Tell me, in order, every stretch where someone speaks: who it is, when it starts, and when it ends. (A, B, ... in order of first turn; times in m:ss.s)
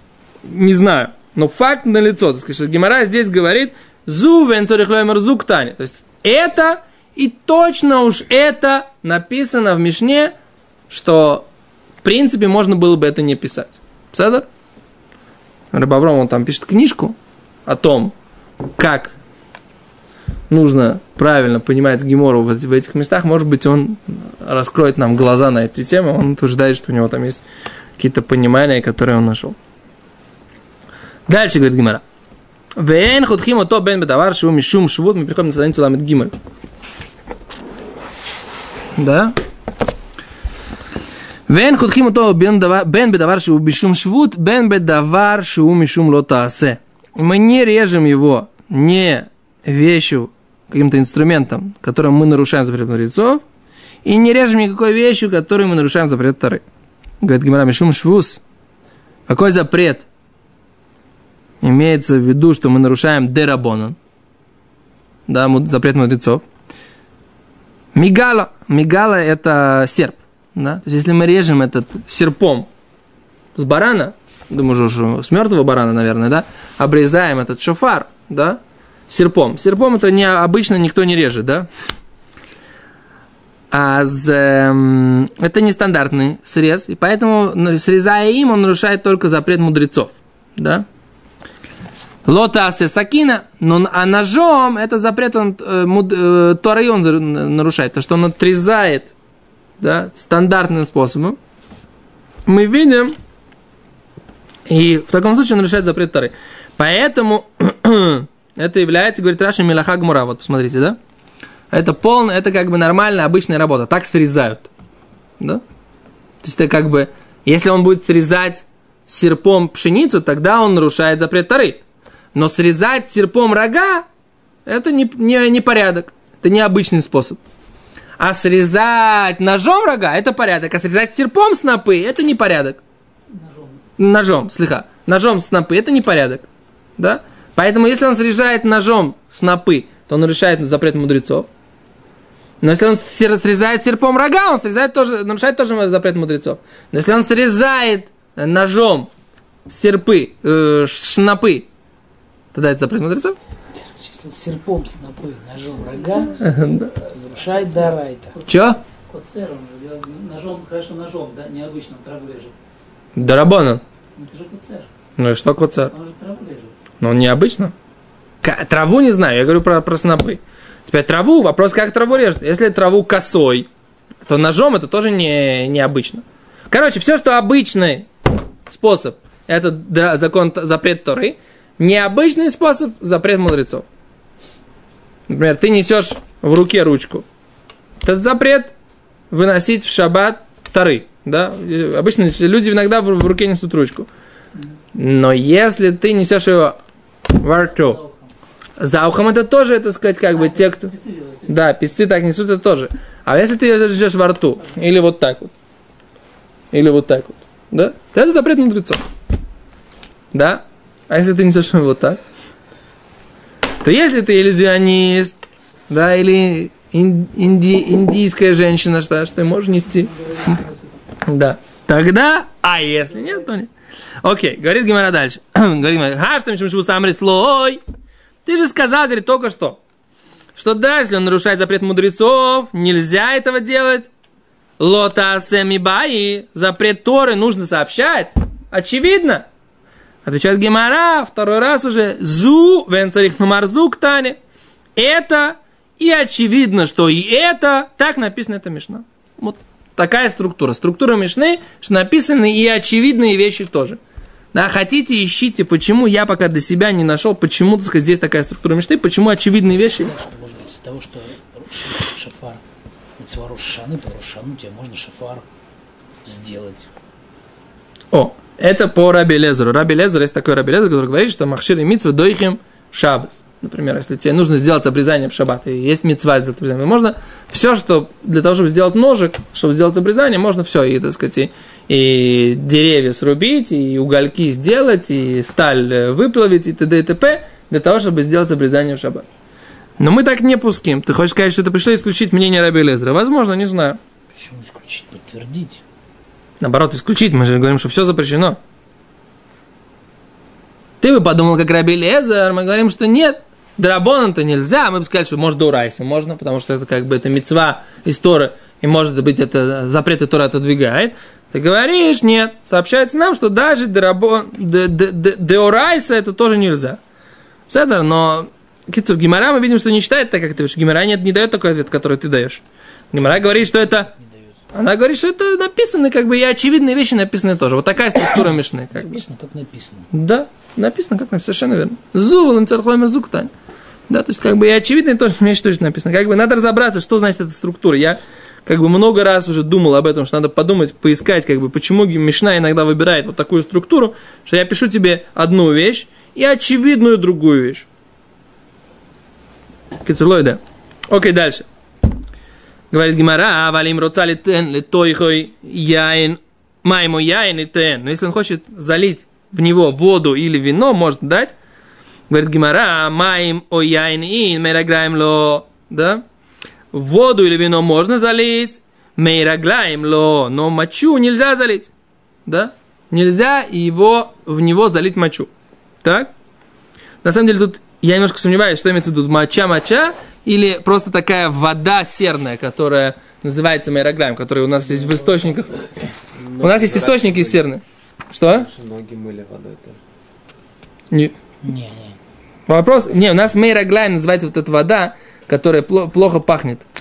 0:00.5-0:10.4 A
0:10.9-0:11.5 A
0:12.0-0:14.5 A
0:15.7-0:18.1 A
0:18.8-0:19.2 A
0:20.5-0:27.4 A
0:28.0-0:29.6 A
0:31.3-0:32.0 A
0:32.8-0:36.3 A
0:39.0-0:39.4 A
0:41.5-0:53.4 A
0:54.0-0:56.6 A
0:57.2-0:58.4 A
0:59.3-1:00.1 A
1:01.6-1:04.0 A
1:05.3-1:06.4 A
1:07.9-1:12.7 A
1:13.6-1:21.7 A
1:23.7-1:30.9 A
1:32.3-1:39.1 A
1:39.8-1:41.4 A
1:42.5-1:43.2 A
1:44.7-1:51.0 A
1:51.7-1:54.7 A
1:56.4-2:01.8 A
2:02.4-2:04.1 A
2:04.7-2:07.4 A
2:08.2-2:12.8 A
2:13.3-2:13.8 B
2:14.0-2:16.5 A
2:17.0-2:21.5 A
2:22.6-2:29.1 A
2:29.7-2:31.7 A
2:32.5-2:33.4 A
2:33.8-2:36.4 C
2:36.4-2:36.9 A
2:37.0-2:38.4 C
2:37.4-2:42.6 B
2:38.5-2:38.8 A
2:43.2-2:43.8 A
2:44.2-2:44.9 B
2:45.2-2:45.9 A
2:45.9-2:46.7 B
2:47.0-2:47.7 A
2:48.4-2:53.7 A
2:54.2-2:58.1 A
2:58.7-3:03.9 A
3:05.3-3:07.2 A
3:08.0-3:08.7 A
3:09.3-3:14.1 A
3:15.0-3:16.8 A
3:17.3-3:18.0 A
3:17.5-3:18.3 B
3:18.8-3:21.0 A
3:20.3-3:21.6 B
3:21.5-3:25.5 A
3:26.7-3:29.0 A
3:30.3-3:32.2 A
3:33.8-3:35.4 A
3:35.9-3:40.6 A
3:39.9-3:40.9 B
3:41.3-3:43.7 A
3:44.2-3:47.8 A
3:48.4-3:49.8 A
3:50.6-3:54.1 A
3:54.8-3:59.5 A
4:00.2-4:04.4 A
4:05.0-4:14.0 A
4:14.5-4:20.1 A
4:19.6-4:22.6 C
4:23.2-4:25.5 C
4:26.2-4:26.9 C
4:28.1-4:49.2 A
4:50.0-4:54.0 A
4:54.3-4:55.8 C
4:56.6-4:58.6 A
5:01.0-5:17.0 A
5:17.7-5:24.1 A
5:23.2-5:24.6 C
5:24.7-5:29.2 A
5:28.4-5:30.1 C
5:30.1-5:33.5 A
5:34.1-5:47.9 A
5:50.0-5:51.7 A
5:52.9-6:01.6 A
6:02.3-6:06.2 A
6:06.9-6:11.9 A
6:12.5-6:15.5 A
6:16.0-6:16.3 A
6:17.2-6:25.9 A
6:26.4-6:27.6 D
6:26.6-6:28.7 A
6:28.5-6:30.0 D
6:31.6-6:32.2 C
6:32.7-6:36.9 A